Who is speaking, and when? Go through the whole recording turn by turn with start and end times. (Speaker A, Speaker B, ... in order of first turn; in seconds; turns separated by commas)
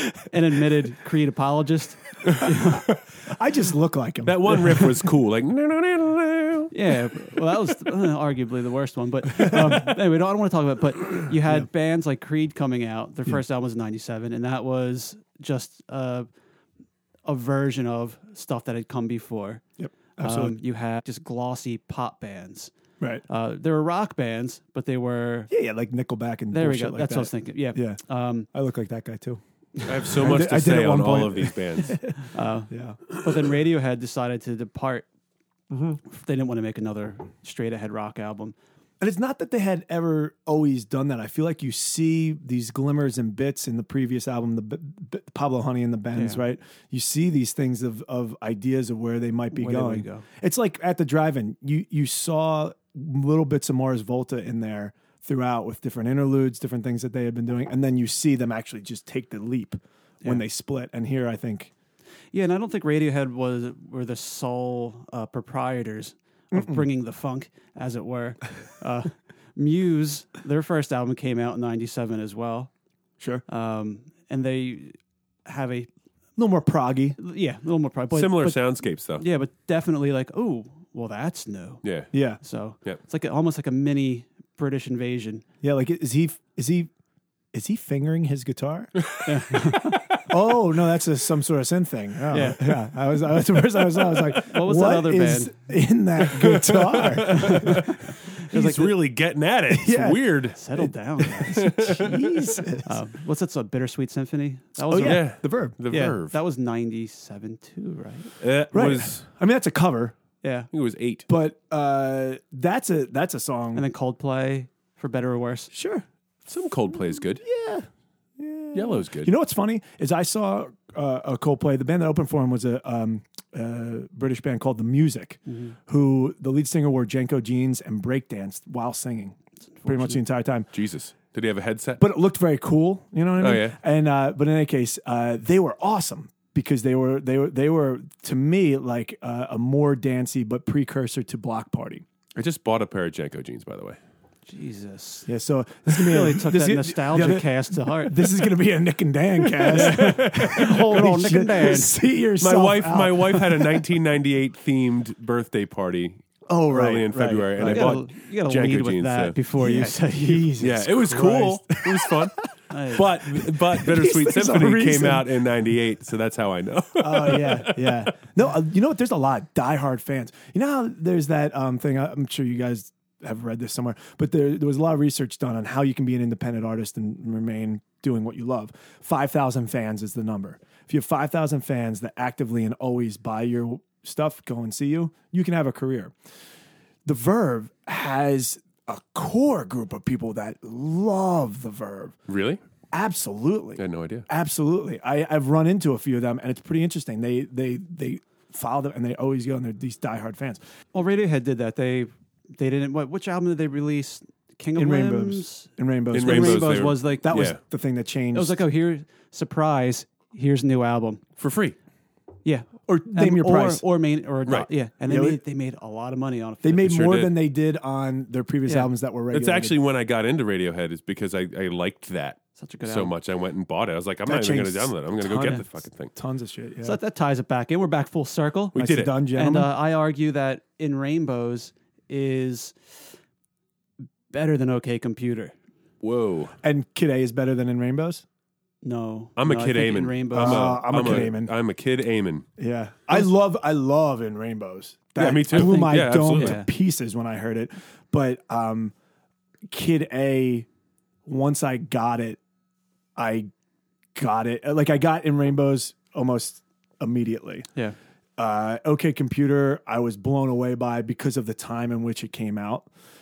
Speaker A: 0.3-2.9, Speaker B: 3.3-5.1, Speaker C: 4.2-6.7, Speaker A: 6.7-16.3, Speaker A: 17.3-19.6, Speaker B: 19.8-20.6, Speaker A: 20.2-22.7, Speaker A: 23.3-25.5, Speaker B: 25.5-28.0, Speaker A: 26.5-28.5, Speaker B: 28.5-33.1, Speaker C: 29.9-32.0, Speaker A: 32.3-35.1, Speaker B: 35.7-36.0, Speaker A: 36.0-38.6, Speaker B: 39.0-61.7, Speaker A: 46.1-46.4, Speaker A: 49.5-50.3, Speaker A: 62.3-72.7, Speaker B: 66.5-66.9, Speaker A: 73.5-75.9, Speaker B: 76.4-77.2, Speaker A: 77.2-81.8, Speaker C: 78.1-79.2, Speaker C: 81.8-82.1, Speaker B: 82.1-82.4, Speaker A: 82.4-85.5, Speaker B: 85.6-86.9, Speaker B: 87.5-89.0, Speaker A: 89.2-90.0, Speaker B: 90.3-97.8, Speaker A: 92.3-92.7, Speaker A: 94.5-95.5, Speaker C: 96.4-100.6, Speaker A: 97.3-98.9, Speaker B: 99.7-100.3, Speaker A: 100.5-102.0, Speaker B: 101.2-102.9, Speaker C: 101.5-102.5, Speaker A: 102.8-108.3, Speaker B: 104.9-105.8, Speaker C: 105.0-106.4, Speaker C: 108.4-109.2, Speaker B: 108.7-110.2, Speaker A: 110.4-110.7, Speaker C: 110.7-111.3, Speaker B: 111.3-113.8, Speaker A: 113.8-115.7, Speaker B: 115.7-116.0, Speaker C: 116.5-117.4, Speaker B: 117.2-117.9, Speaker B: 118.4-130.7, Speaker C: 118.7-119.3, Speaker A: 125.5-125.7, Speaker A: 129.8-130.2, Speaker C: 130.7-132.0, Speaker B: 132.0-142.0, Speaker C: 133.4-133.8, Speaker C: 142.3-144.0, Speaker A: 144.5-145.3, Speaker B: 145.3-153.8, Speaker A: 145.9-148.2, Speaker C: 149.7-150.6, Speaker A: 149.7-151.9, Speaker C: 152.4-159.4, Speaker B: 156.5-158.0, Speaker A: 157.6-160.5, Speaker B: 159.6-162.4, Speaker C: 160.6-162.4, Speaker A: 162.7-163.1, Speaker C: 162.9-168.1, Speaker B: 163.3-165.3, Speaker B: 167.0-186.1, Speaker B: 187.1-192.2, Speaker C: 192.3-192.6, Speaker B: 192.9-200.6, Speaker C: 193.8-194.3, Speaker A: 200.9-207.5, Speaker B: 204.8-208.6, Speaker C: 206.1-207.6, Speaker A: 208.3-211.2, Speaker C: 211.4-211.8, Speaker A: 212.4-217.0, Speaker B: 212.9-213.8, Speaker B: 215.1-215.4, Speaker B: 216.6-219.8, Speaker C: 216.8-217.4, Speaker C: 219.3-226.1, Speaker A: 222.6-223.1, Speaker B: 224.2-227.0, Speaker A: 226.8-228.8, Speaker C: 228.8-229.1, Speaker B: 228.8-229.7, Speaker A: 229.3-232.9, Speaker A: 234.3-235.6, Speaker C: 236.0-236.6, Speaker B: 236.6-238.2, Speaker A: 238.8-241.2, Speaker C: 239.4-242.5, Speaker B: 240.3-241.5, Speaker B: 242.6-248.9, Speaker C: 245.2-246.6, Speaker A: 245.3-246.7, Speaker B: 249.7-250.7, Speaker B: 251.3-252.4, Speaker B: 253.2-253.5, Speaker B: 254.2-257.7, Speaker B: 258.4-262.9